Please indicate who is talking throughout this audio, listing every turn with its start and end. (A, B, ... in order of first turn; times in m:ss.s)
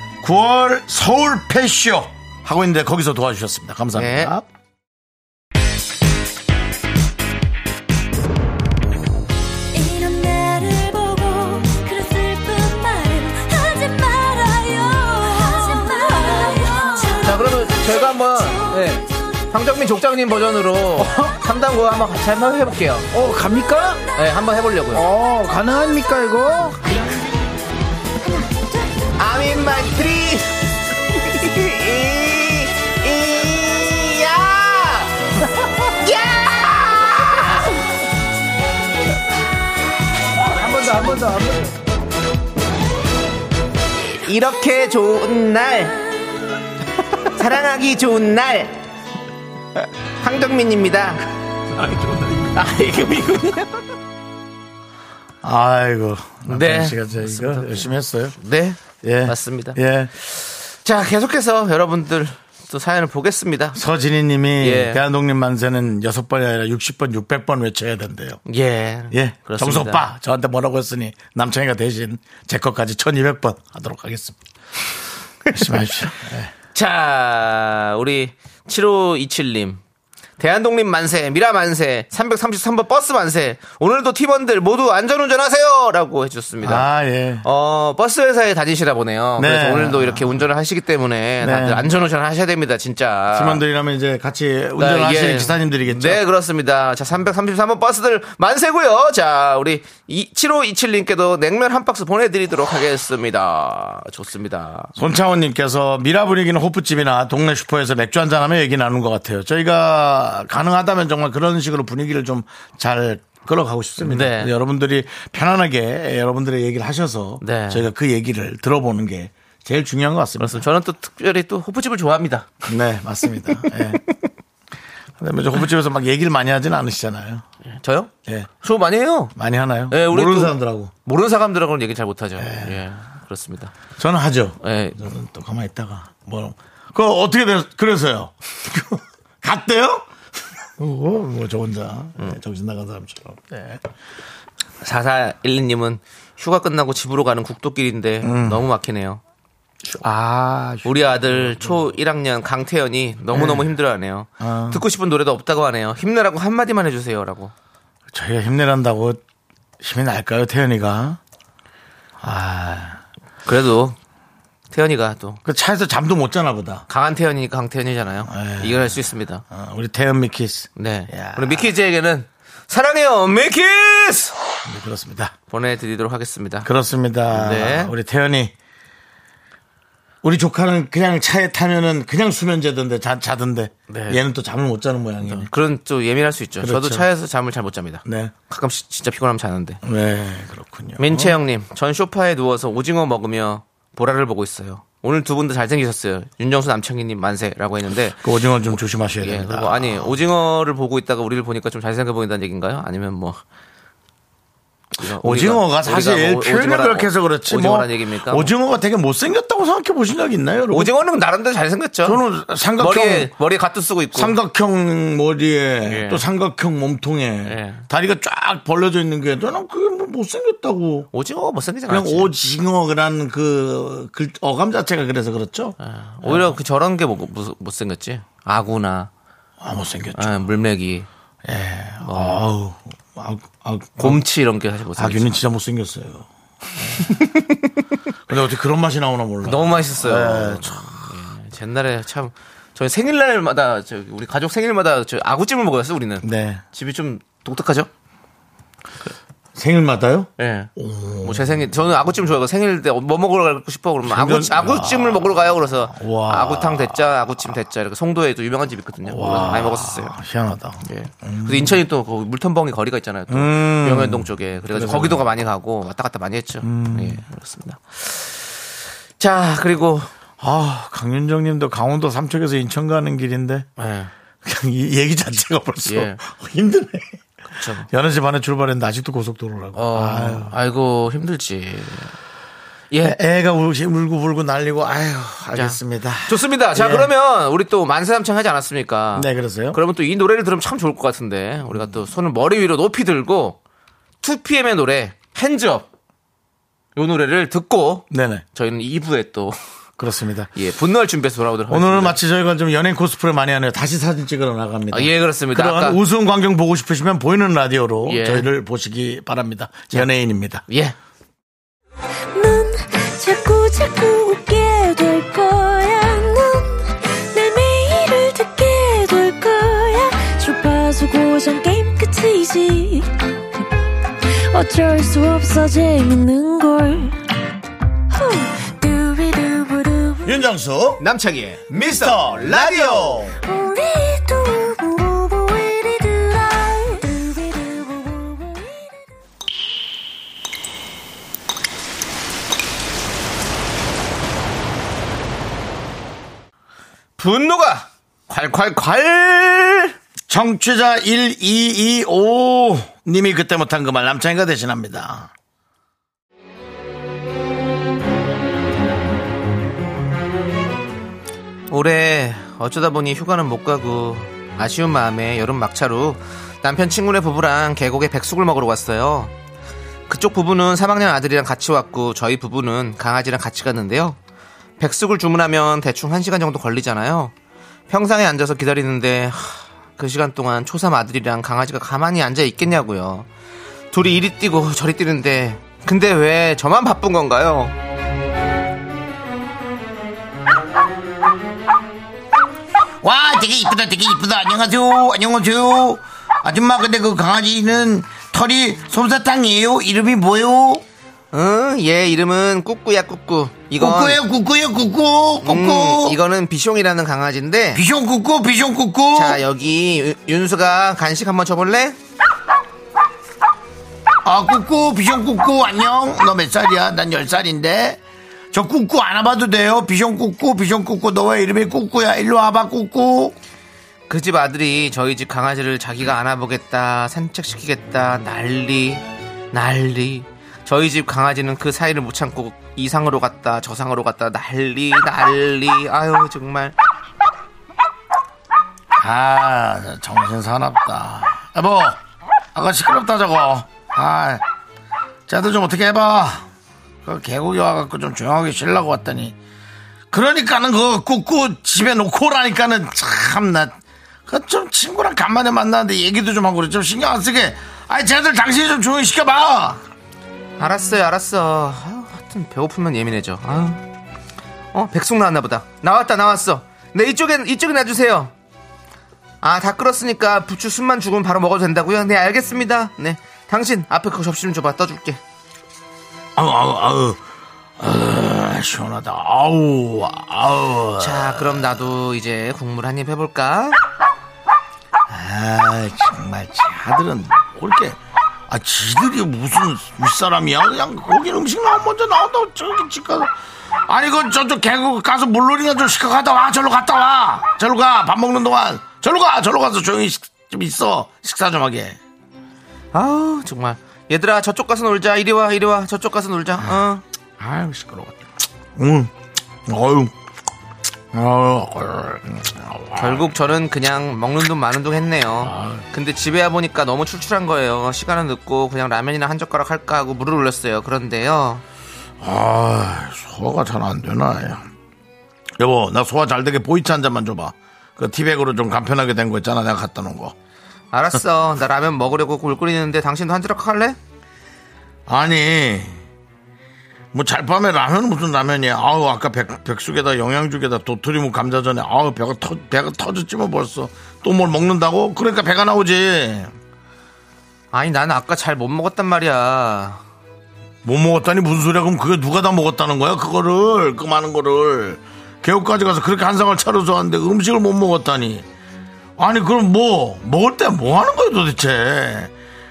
0:00.2-0:04.5 A
0:04.0-0:04.3 B
0:09.7-0:19.1 C
0:17.2-0:18.6 B
0:18.7-0:19.0 D
0:19.5-0:23.1 B
0:23.1-0:24.0 D
0:24.2-0:25.1 B
0:24.9-0:26.8 D
0:29.2-0:30.5 B
0:31.2-0:35.2 B
0:36.0-0:37.7 B
0:40.6-0:41.6 D
0:44.2-0:46.0 B
0:47.3-0:48.8 B
0:50.2-0:51.2 B
0:51.7-0:52.5 A
0:52.5-0:53.8 B
0:55.4-0:58.4 A
0:56.5-0:59.8 B
0:59.0-1:00.1 A
1:00.3-1:03.8 B
1:03.7-1:08.4 A
1:04.6-1:05.0 B
1:08.5-1:10.1 B
1:09.1-1:14.4 A
1:15.5-1:16.5 A
1:16.8-1:19.8 B
1:20.4-1:26.9 B
1:26.6-1:27.5 A
1:27.4-1:33.6 B
1:29.4-1:30.4 A
1:31.4-1:31.9 A
1:33.3-1:36.2 A
1:34.8-1:44.9 B
1:45.0-2:00.6 A
1:54.0-1:54.5 B
1:57.4-1:57.9 B
2:00.4-2:02.6 B
2:02.7-2:04.0 A
2:05.2-2:07.4 A
2:07.7-2:09.3 B
2:09.4-2:10.9 A
2:09.9-2:13.7 B
2:12.4-2:12.8 A
2:14.0-2:20.1 A
2:14.6-2:15.0 B
2:20.8-2:23.8 A
2:24.8-2:29.2 B
2:28.2-2:28.6 A
2:29.8-2:31.8 A
2:30.8-2:37.5 B
2:33.3-2:33.7 A
2:34.4-2:34.8 A
2:38.1-2:39.2 A
2:39.8-2:41.2 A
2:42.2-2:43.0 A
2:43.5-2:44.0 B
2:44.7-2:45.4 B
2:45.4-2:46.8 A
2:46.9-2:49.4 B
2:48.2-2:51.7 A
2:50.8-2:54.4 B
2:54.7-2:55.3 A
2:55.5-2:56.7 B
2:56.6-2:58.5 A
2:57.3-2:57.9 B
3:00.2-3:05.5 A
3:03.9-3:04.2 B
3:05.2-3:09.8 B
3:06.6-3:07.1 A
3:08.0-3:08.3 A
3:09.8-3:11.4 A
3:11.0-3:18.2 B
3:18.2-3:20.2 A
3:19.2-3:23.4 B
3:25.0-3:28.5 B
3:25.2-3:30.9 A
3:30.7-3:32.2 B
3:32.0-3:33.3 A
3:32.8-3:34.4 B
3:34.1-3:41.1 A
3:35.8-3:36.2 B
3:37.5-3:37.9 B
3:41.1-3:42.3 B
3:41.9-3:46.6 A
3:45.8-3:49.1 B
3:49.6-3:50.5 A
3:50.2-3:51.1 B
3:51.4-3:54.2 A
3:52.0-3:52.4 B
3:54.0-3:55.3 B
3:55.0-3:57.4 A
3:57.0-3:57.7 B
3:58.3-4:01.1 A
3:59.4-4:07.9 B
4:06.2-4:06.6 A
4:09.6-4:11.7 A
4:10.4-4:10.7 B
4:11.2-4:20.2 B
4:14.0-4:17.0 A
4:19.0-4:21.8 A
4:20.8-4:28.5 B
4:23.3-4:25.2 A
4:26.6-4:27.2 A
4:29.2-4:30.1 B
4:30.4-4:33.7 A
4:33.8-4:34.1 B
4:34.4-4:37.2 A
4:35.9-4:36.2 B
4:37.5-4:37.9 B
4:37.8-4:40.6 A
4:39.7-4:42.2 B
4:42.9-4:43.2 B
4:43.0-4:47.1 A
4:45.6-4:53.6 B
4:49.1-4:49.8 A
4:51.7-4:52.0 A
4:54.2-4:55.9 B
4:57.0-4:59.6 B
4:58.1-4:58.4 A
5:00.0-5:00.5 A
5:00.6-5:02.2 B
5:01.7-5:10.6 A
5:04.9-5:06.0 B
5:08.1-5:08.5 B
5:10.7-5:11.0 B
5:12.3-5:23.7 C
5:24.3-5:27.2 C
5:28.1-5:30.5 C
5:30.2-5:31.0 A
5:31.0-5:33.2 B
5:31.7-5:33.4 A
5:33.4-5:39.1 C
5:47.2-5:49.9 B
5:50.3-5:55.3 A
6:01.7-6:09.3 B
6:10.1-6:14.2 B
6:14.8-6:17.3 B
6:17.9-6:23.3 B
6:23.9-6:27.7 B
6:33.0-6:40.8 A
6:41.3-6:44.2 B
6:43.8-6:46.2 A
6:45.4-6:47.8 B
6:47.7-6:49.4 A
6:49.1-6:52.0 B
6:54.2-6:58.0 A
6:58.5-7:03.4 A
7:04.1-7:16.8 B
7:19.0-7:22.0 A
7:22.5-7:24.4 A
7:25.3-7:26.5 A
7:27.0-7:29.4 A
7:30.1-7:39.8 A
7:40.6-7:43.8 B
7:44.7-7:48.3 B
7:49.4-7:55.2 B
7:56.4-7:57.2 A
7:57.8-8:01.8 A
8:01.0-8:03.8 B
8:05.1-8:08.0 A
8:08.5-8:13.3 A
8:13.9-8:22.0 A
8:22.9-8:27.0 B
8:27.4-8:28.2 A
8:28.8-8:29.1 A
8:29.7-8:30.1 A
8:31.1-8:33.3 A
8:33.0-8:41.6 B
8:35.4-8:35.8 A
8:42.2-8:44.6 A
8:45.6-8:50.4 A
8:50.9-8:54.0 B
8:55.1-8:56.0 A
8:57.1-9:06.5 A
9:07.7-9:10.0 B
9:10.8-9:18.4 A
9:19.2-9:22.3 A